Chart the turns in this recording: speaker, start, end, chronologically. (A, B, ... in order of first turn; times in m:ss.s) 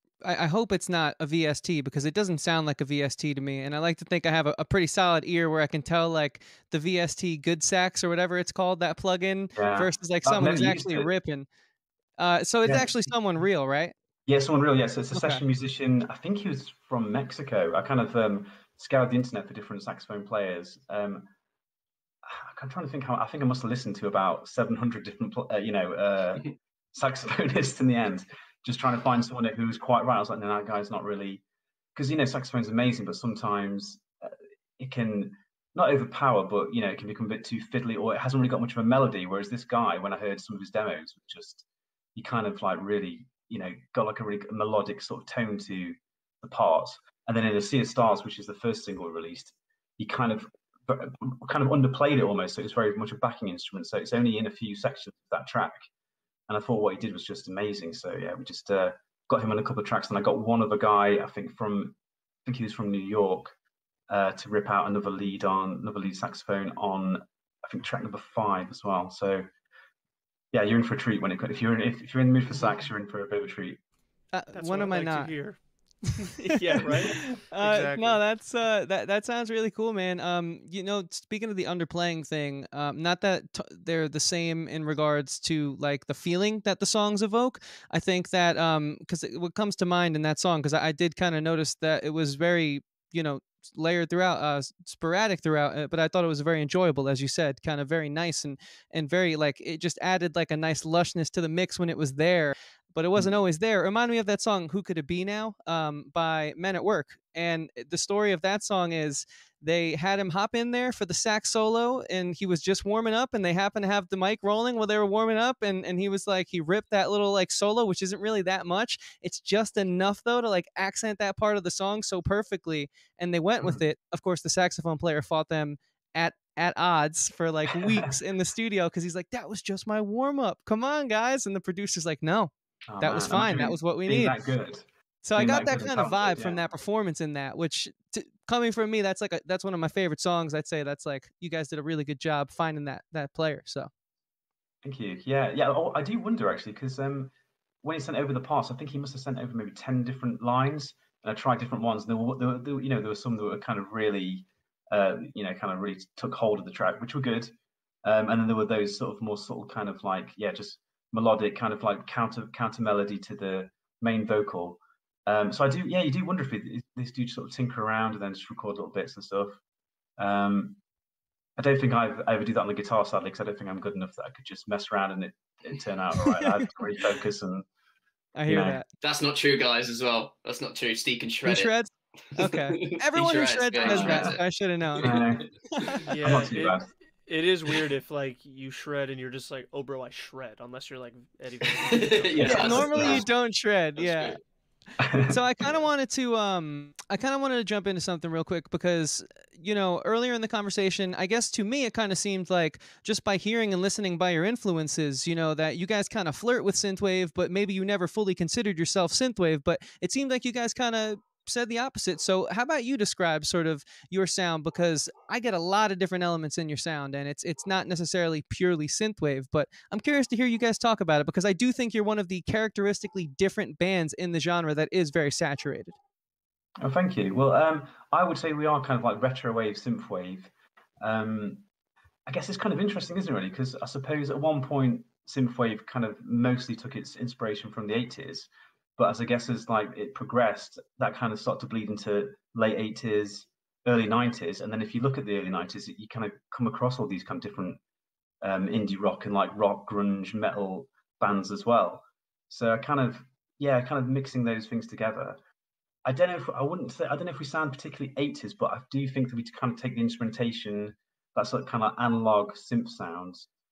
0:00.2-0:11.5 A
0:09.5-0:11.1 B
0:12.2-0:13.9 A
0:12.6-0:12.9 B
0:14.3-0:21.3 B
0:15.1-0:15.4 A
0:22.2-0:31.4 B
0:32.0-0:55.8 B
0:56.5-1:03.5 B
1:04.1-1:09.5 B
1:10.5-1:13.8 B
1:14.3-1:15.3 A
1:14.5-1:18.2 C
1:16.8-1:17.2 B
1:17.0-2:14.4 A
2:07.7-2:08.1 B
2:12.9-2:16.6 B
2:15.2-2:23.9 A
2:24.8-2:27.3 B
2:27.8-2:49.6 B
2:50.2-2:50.8 B
2:51.6-2:57.6 B
2:56.3-2:56.6 A
2:58.3-2:58.9 A
2:58.5-2:58.8 B
2:59.0-3:01.7 D
3:01.4-3:05.2 A
3:02.3-3:04.4 D
3:03.8-3:04.4 B
3:04.9-3:06.0 D
3:05.0-3:05.5 B
3:05.7-3:06.0 A
3:06.0-3:12.8 C
3:06.2-3:06.9 B
3:11.6-3:13.2 D
3:12.4-3:13.2 B
3:12.4-3:14.4 A
3:14.0-3:14.4 D
3:15.0-3:15.4 B
3:15.3-3:46.0 A
3:46.8-3:51.6 B
3:52.2-4:07.8 B
4:08.4-4:15.4 B
4:16.0-4:23.5 B